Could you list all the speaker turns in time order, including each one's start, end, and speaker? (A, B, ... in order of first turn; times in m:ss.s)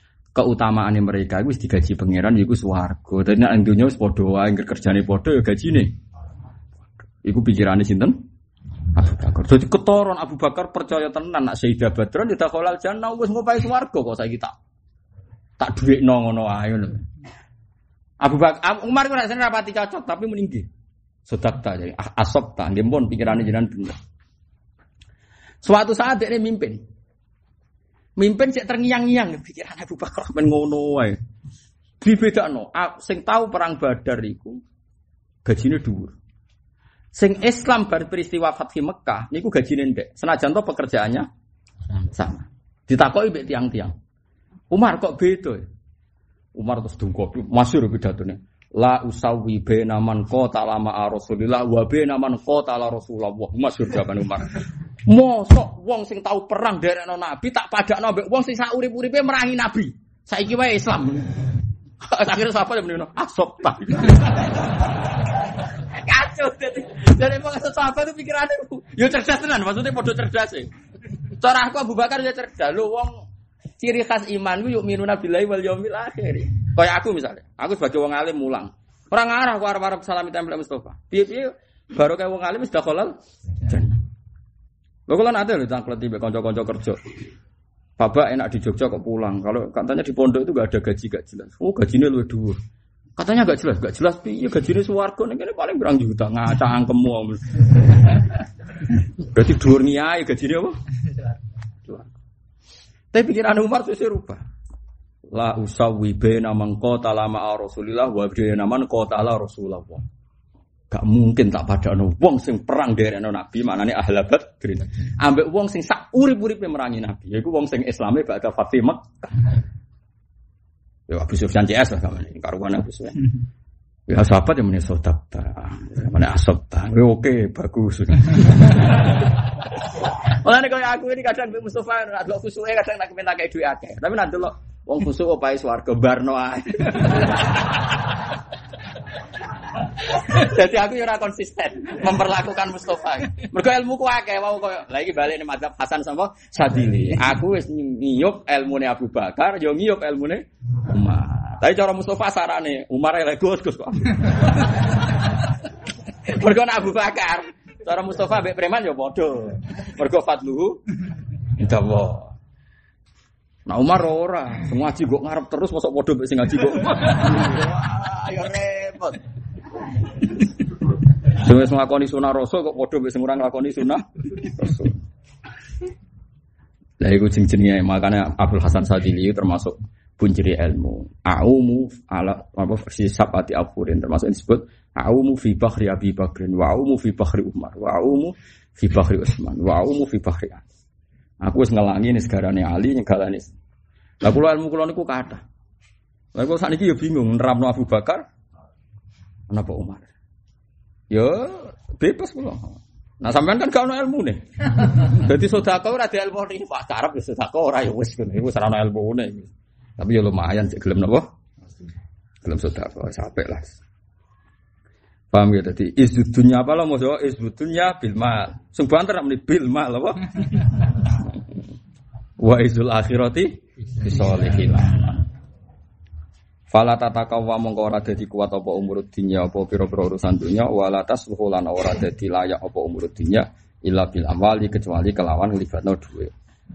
0:00.4-0:05.9 A
0:07.2-0:08.2 A
0:08.9-0:14.6 A
0:15.6-0:17.1 A
0:18.2-0:20.7 A
0:21.3-0:24.0 A
0:25.6-0:26.8 A
0:28.2-0:31.2 A
0:32.0-0:34.6 A
0:35.4-0:36.2 A
0:37.1-0:41.3 A
0:42.0-0:43.9 A
0:44.7-0:45.6 A
0:46.6-1:01.4 A
1:02.0-1:10.7 A
1:11.2-1:13.2 A
1:13.8-1:24.0 A
1:25.1-1:27.0 A
1:28.0-1:32.6 A
1:33.2-1:38.4 A
1:39.2-1:40.8 A
1:43.1-1:44.4 A
1:45.3-1:50.1 A
1:50.9-1:59.5 A
2:01.1-2:03.3 A
2:04.1-2:18.2 A
2:19.8-2:35.5 A
2:36.2-2:40.8 A
2:41.6-2:42.4 A
2:43.7-2:49.2 A
2:51.2-2:55.0 A
2:57.0-3:10.6 A
3:11.4-3:13.5 A
3:14.2-3:15.4 A
3:16.3-3:18.2 A
3:19.5-3:20.1 A
3:21.1-3:31.3 A
3:32.4-3:33.8 A
3:35.3-3:41.4 A
3:42.4-3:45.2 A
3:46.7-3:56.3 A